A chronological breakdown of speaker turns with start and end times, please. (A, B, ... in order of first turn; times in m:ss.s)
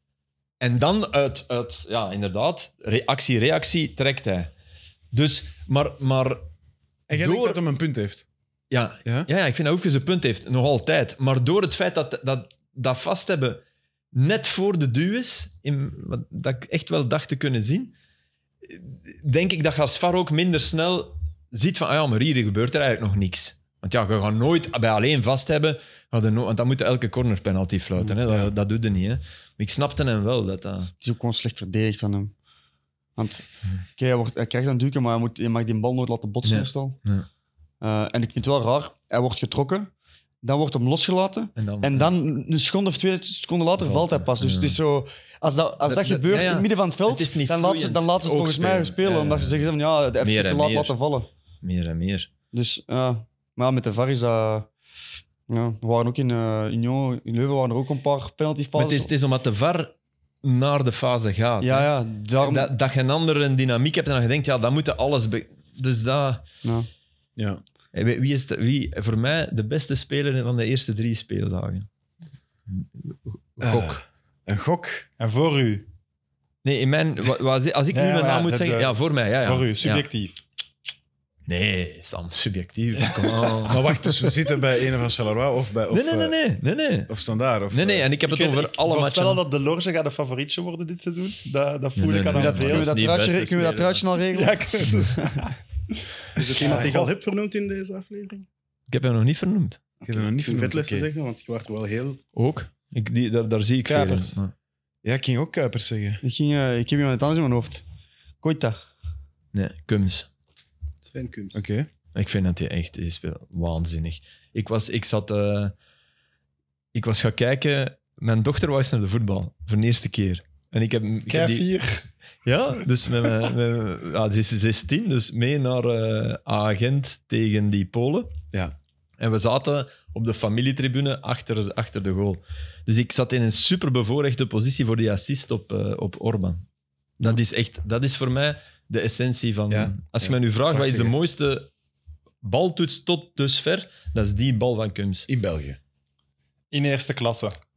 0:00.6-0:04.5 A
0:05.1-0:06.4 A
0:07.1-0:08.2 B
0:07.1-0:07.6 A
0:08.7-0:13.6 A
0:14.1-0:17.9 A
0:18.6-0:30.9 A
0:28.2-0:28.5 B
0:31.0-0:32.3 C
0:33.2-0:37.0 C
0:36.4-0:37.3 A
0:37.8-0:39.9 C
0:40.4-0:51.3 C
0:41.6-0:42.1 A
0:43.8-0:44.8 A
0:45.8-0:49.7 A
0:50.2-0:51.0 A
0:51.6-0:52.3 A
0:52.5-0:54.7 C
0:55.5-0:59.1 C
0:58.8-1:06.4 A
1:01.6-1:02.7 C
1:07.4-1:07.6 B
1:07.9-1:11.9 A
1:12.7-1:14.0 A
1:13.6-1:15.1 B
1:15.2-1:15.9 D
1:16.6-1:20.1 A
1:17.9-1:20.4 D
1:21.5-1:23.8 A
1:23.0-1:23.7 D
1:23.7-1:26.4 B
1:25.9-1:27.1 A
1:27.1-1:28.1 B
1:27.7-1:29.4 A
1:28.2-1:32.9 D
1:32.0-1:34.0 A
1:32.3-1:35.4 C
1:34.3-1:35.5 D
1:36.3-1:37.1 D
1:36.4-1:38.4 E
1:36.6-1:36.9 B
1:38.9-1:39.8 A
1:40.0-1:42.2 E
1:40.0-1:41.1 B
1:42.3-1:44.5 A
1:43.8-1:44.4 D
1:45.0-1:46.2 B
1:46.2-1:47.8 C
1:48.4-1:48.8 C
1:49.5-1:50.3 A
1:51.0-1:51.6 E
1:51.5-1:51.9 B
1:52.1-1:55.7 A
1:56.9-2:01.6 A
2:01.3-2:02.1 D
2:02.4-2:08.4 A
2:09.2-2:16.6 A
2:17.2-2:21.7 A
2:19.7-2:21.1 B
2:22.4-2:25.3 A
2:25.3-2:25.8 B
2:26.7-2:27.6 D